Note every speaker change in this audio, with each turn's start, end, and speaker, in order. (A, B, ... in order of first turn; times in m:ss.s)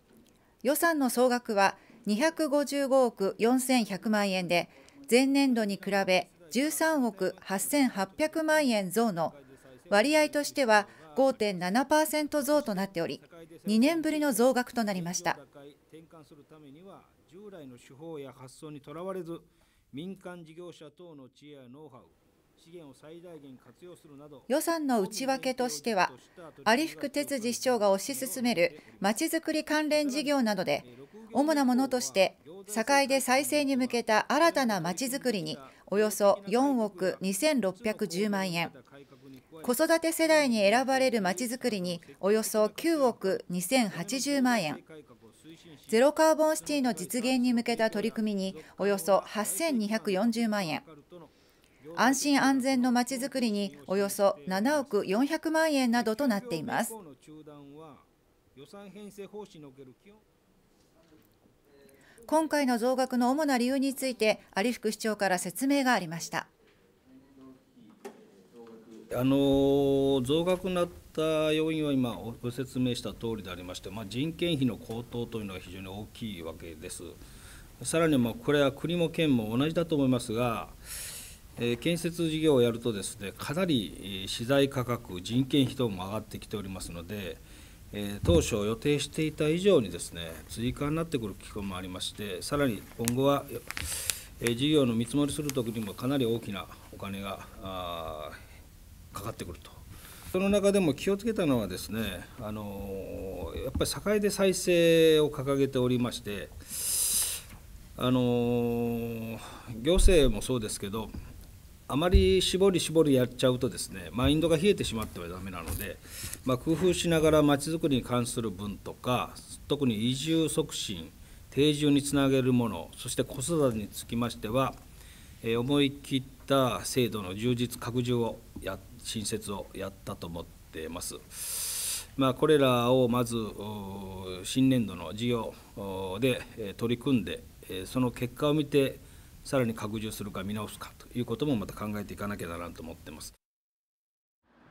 0:00.6-0:09.3 A
0:05.4-0:11.8 B
0:09.9-0:15.4 A
0:12.4-0:29.2 B
0:24.5-0:38.7 A
0:29.9-0:55.2 B
0:39.6-0:44.8 A
0:45.9-0:50.8 A
0:52.0-0:56.9 A
0:55.9-1:00.2 B
1:02.2-1:06.5 A
1:09.1-1:17.2 B
1:17.8-1:20.8 B
1:21.6-1:38.4 B
1:39.1-1:47.4 B
1:48.0-1:51.1 B
1:51.9-2:04.8 B
2:05.4-2:23.3 B